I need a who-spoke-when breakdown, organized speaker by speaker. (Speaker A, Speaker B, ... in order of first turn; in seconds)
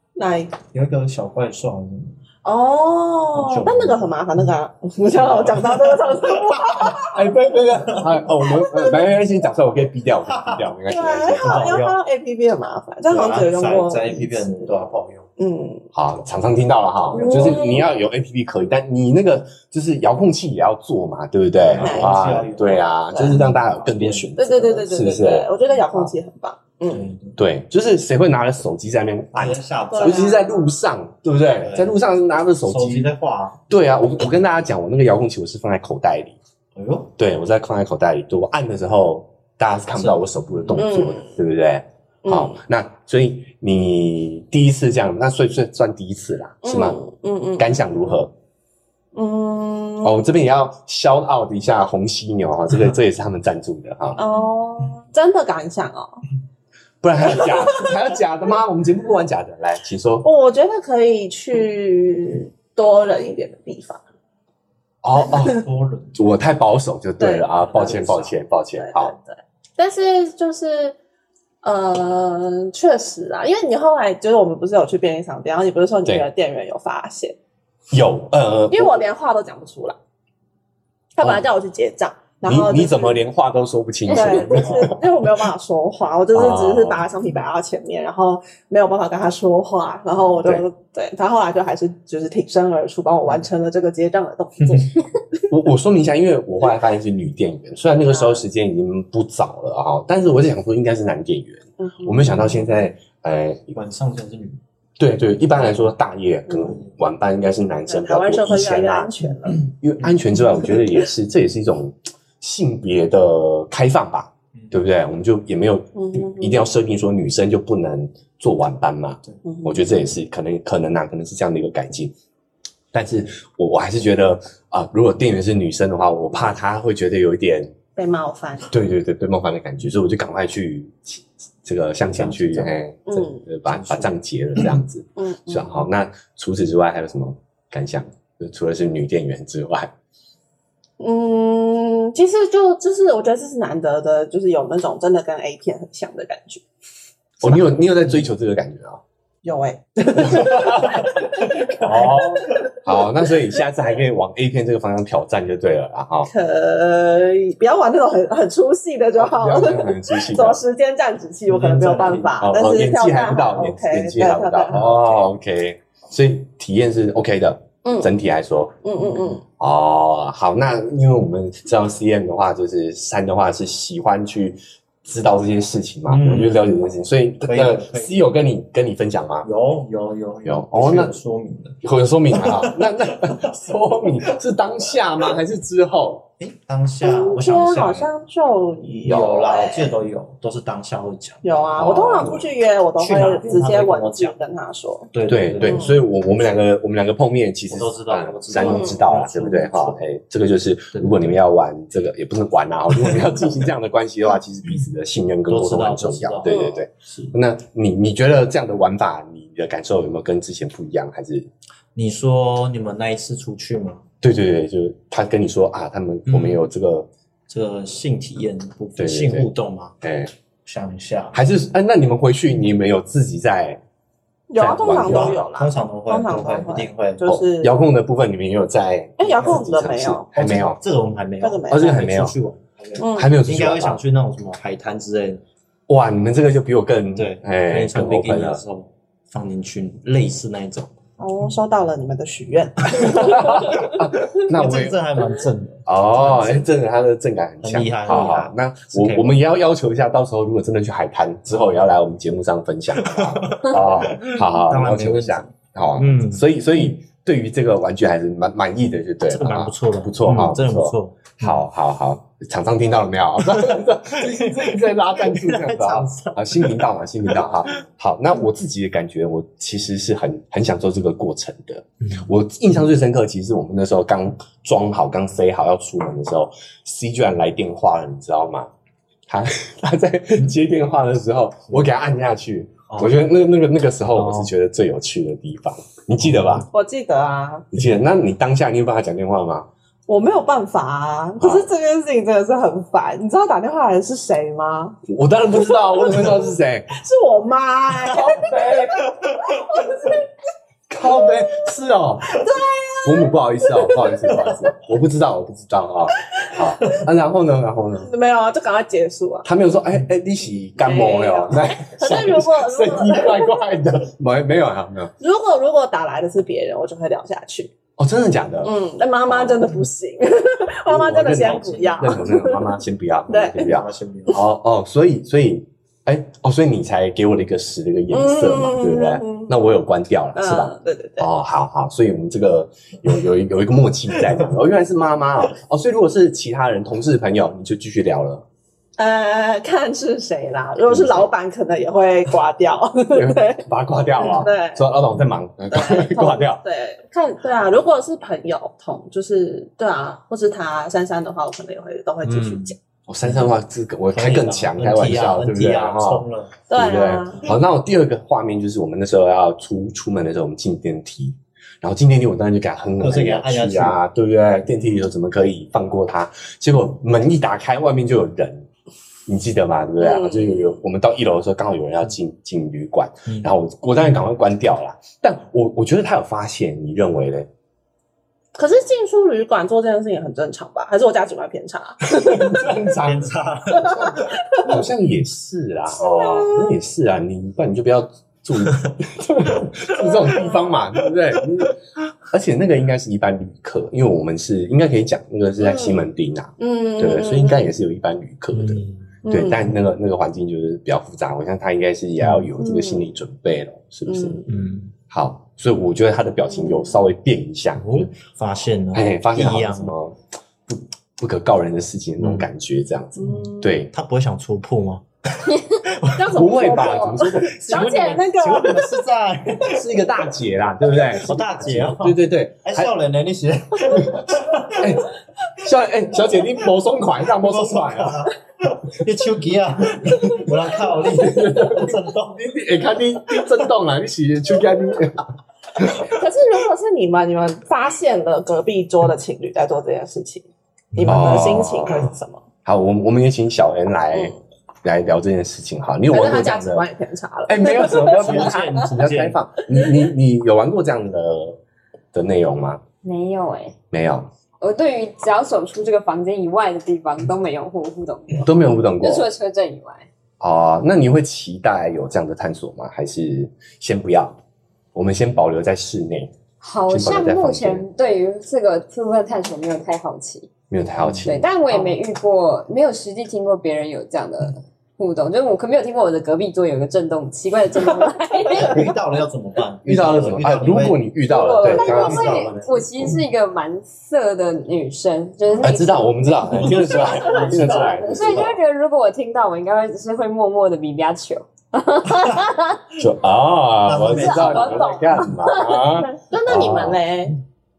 Speaker A: 0.1-0.6, 2.4-7.2, 10.9-14.7, 15.4-15.9, 17.1-17.9, 21.8-22.2, 24.4-27.1, 29.9-30.8, 40.8-41.4, 42.2-42.6, 46.6-47.7, 49.1-50.2, 54.2-56.2, 57.3-57.8, 60.2-64.0, 65.3-65.6, 67.2-71.0, 71.6-77.4, 78.7-80.0, 81.2-83.2, 84.1-95.4, 98.1-98.4, 101.8-102.5, 107.9-109.6, 116.0-116.7, 119.5-119.8, 128.0-128.7, 133.1-133.4, 135.2-135.8, 141.0-146.6, 149.4-152.7, 156.3-165.3, 167.8-168.1, 168.8-169.4, 187.0-190.0, 191.4-195.9, 198.6-199.1, 206.4-206.8, 224.5-227.8, 229.2-230.3, 231.4-231.9, 233.0-233.3, 241.2-243.9, 286.7-287.7, 290.1-295.0, 295.6-300.2, 302.3-304.6, 306.3-307.0, 308.0-309.5, 310.8-313.6, 315.2-317.7, 318.6-322.8, 323.3-323.8, 328.1-329.6, 330.4-331.3, 339.0-343.6, 344.2-344.8, 345.7-352.8, 356.7-357.5, 370.0-370.7, 378.5-382.2, 385.9-386.8, 390.2-390.7, 395.6-396.0, 396.6-397.7, 399.2-399.6, 402.6-403.1, 404.1-404.5, 406.5-406.9, 413.2-413.8, 416.1-419.1, 436.0-442.4, 446.1-448.6, 487.0-487.9, 494.4-494.8, 495.3-497.4
Speaker B: 0.7-2.1, 3.3-4.1, 5.1-7.0, 7.9-8.2, 10.3-10.7, 11.4-12.0, 13.1-15.3, 17.2-17.8, 21.6-24.3, 26.9-27.4, 29.3-30.4, 31.6-32.0, 32.6-33.6, 36.8-37.1, 40.0-40.8, 65.4-66.2, 103.7-104.6, 106.6-106.9, 132.1-132.8, 133.7-134.8, 151.5-152.2, 161.5-162.4, 176.1-176.7, 177.4-178.2, 179.4-181.8, 182.3-183.4, 186.4-188.1, 189.0-191.5, 193.0-194.4, 195.1-196.0, 197.7-200.0, 200.9-201.3, 203.0-203.4, 205.5-207.4, 211.9-214.0, 216.3-216.7, 217.5-220.0, 220.6-221.4, 224.9-227.2, 229.3-235.4, 237.2-241.0, 243.0-246.7, 247.6-249.3, 253.0-256.4, 259.3-261.6, 263.5-267.8, 284.1-284.5, 286.2-286.6, 321.4-322.2, 323.6-324.4, 352.2-352.7, 353.2-353.5, 354.1-356.6, 363.0-364.0, 373.3-373.5, 382.3-384.6, 388.6-388.9, 398.5-399.1, 402.2-402.5, 404.5-404.9, 407.8-409.9, 412.2-412.5, 413.2-417.0, 417.5-419.9, 421.0-425.0, 427.3-432.5, 440.9-441.6, 447.8-449.4, 478.4-481.0, 481.6-482.8, 486.5-488.5, 493.8-495.1
Speaker C: 7.0-11.7, 15.9-26.1, 27.4-33.1, 33.7-36.4, 37.2-47.0, 47.6-48.3, 50.0-54.2, 57.0-60.3, 65.0-69.1, 77.9-79.0, 82.5-85.0, 86.3-87.0, 95.5-103.7, 105.0-109.1, 109.7-122.1, 122.9-127.7, 128.7-139.9, 147.4-149.0, 150.2-151.0, 151.8-156.3, 159.2-160.6, 162.4-168.8, 169.6-179.5, 180.4-181.2, 181.8-186.3, 189.1-189.4, 191.8-192.5, 195.3-211.5, 214.2-217.1, 219.0-219.5, 220.0-220.3, 221.3-223.8, 224.6-225.4, 227.2-230.8, 231.7-232.3, 233.1-234.0, 235.9-238.6, 243.1-245.0, 245.9-278.7, 279.3-286.7, 287.7-289.7, 291.4-291.7, 295.1-296.9, 298.1-299.0, 300.9-302.5, 303.0-308.1, 309.4-315.1, 318.0-318.7, 319.3-319.7, 320.9-338.4, 340.9-341.3, 343.1-346.6, 353.1-368.7, 369.3-377.5, 382.0-391.8, 392.3-404.4, 405.1-408.1, 408.9-413.9, 416.3-417.9, 419.7-422.9, 424.0-425.1, 425.6-428.3, 431.0-435.2, 435.8-436.2, 441.1-442.1, 442.6-446.8, 447.5-451.6, 452.1-452.8, 453.9-454.3, 458.4-459.3, 460.4-464.4, 464.9-466.3, 466.9-467.8, 470.7-472.0, 479.8-483.2, 485.6-488.6, 493.0-497.0
Speaker D: 453.0-453.8, 454.6-460.1, 466.6-470.5, 471.2-478.9, 481.2-492.8, 494.2-495.0